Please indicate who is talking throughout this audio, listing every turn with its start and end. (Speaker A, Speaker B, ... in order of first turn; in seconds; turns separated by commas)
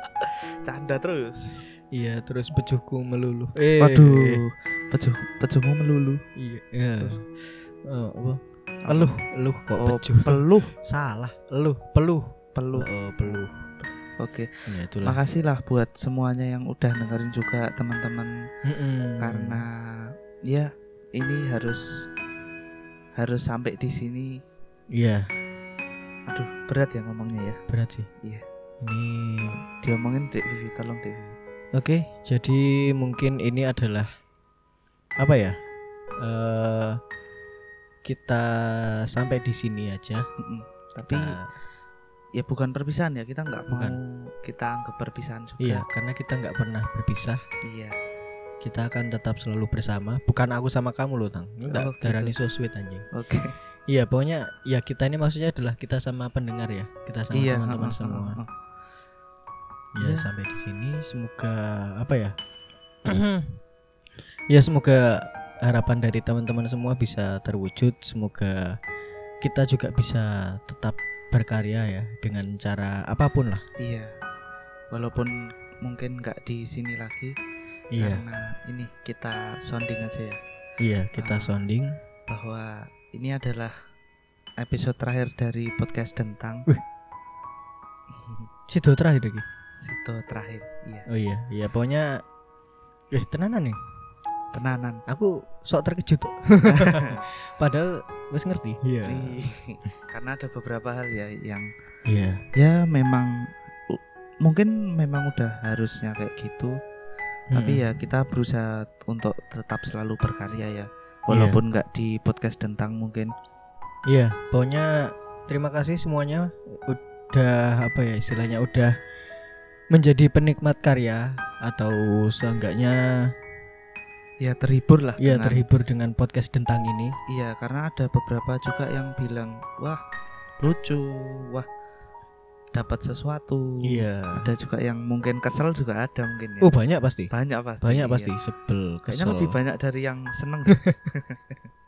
Speaker A: 0.2-1.6, Speaker B: 1.9-4.4, Speaker A: 3.8-6.2, Speaker B: 6.4-13.6, Speaker A: 8.9-9.1, Speaker A: 9.8-10.7, Speaker A: 12.6-14.5, Speaker B: 14.7-15.2, Speaker A: 15.0-18.3, Speaker B: 18.6-19.6, Speaker A: 19.2-19.7, Speaker A: 20.5-21.8, Speaker A: 23.2-24.4, Speaker B: 25.0-25.3, Speaker A: 26.3-27.6, Speaker B: 27.7-28.1, Speaker B: 28.8-29.6, Speaker A: 29.8-31.4, Speaker B: 31.8-34.1, Speaker B: 35.2-35.5, Speaker B: 36.2-37.0, Speaker B: 38.0-40.2, Speaker A: 40.4-41.4, Speaker B: 41.1-41.5, Speaker A: 42.4-45.9, Speaker B: 43.7-44.0, Speaker B: 45.6-47.4, Speaker A: 47.6-48.0, Speaker B: 48.6-53.1, Speaker A: 51.7-52.4, Speaker A: 53.1-53.5, Speaker B: 53.9-58.4, Speaker A: 57.3-58.5, Speaker B: 60.0-62.4, Speaker A: 60.0-60.3, Speaker B: 63.0-63.5, Speaker B: 64.5-68.7, Speaker B: 69.4-73.6, Speaker A: 73.8-74.1, Speaker A: 74.9-77.3, Speaker B: 77.9-78.2, Speaker A: 78.0-80.4, Speaker B: 80.8-82.0, Speaker A: 81.2-81.5, Speaker A: 82.3-83.7, Speaker A: 84.6-86.7, Speaker A: 88.1-88.5, Speaker B: 88.7-89.5, Speaker A: 89.8-91.1, Speaker B: 91.1-92.2, Speaker B: 93.1-93.8, Speaker A: 94.5-95.0, Speaker B: 95.1-99.4, Speaker A: 96.7-97.2, Speaker A: 99.1-101.7, Speaker B: 102.1-102.5, Speaker A: 102.5-106.8, Speaker B: 107.5-108.0, Speaker A: 107.5-113.3, Speaker B: 111.3-111.6, Speaker B: 114.1-118.9, Speaker B: 119.9-123.3, Speaker A: 124.4-125.7, Speaker B: 125.2-127.2, Speaker A: 127.3-130.0, Speaker A: 130.6-131.7, Speaker A: 132.7-136.8, Speaker B: 133.8-134.5, Speaker B: 136.6-137.3, Speaker A: 137.3-138.3, Speaker B: 137.8-139.6, Speaker A: 139.1-141.6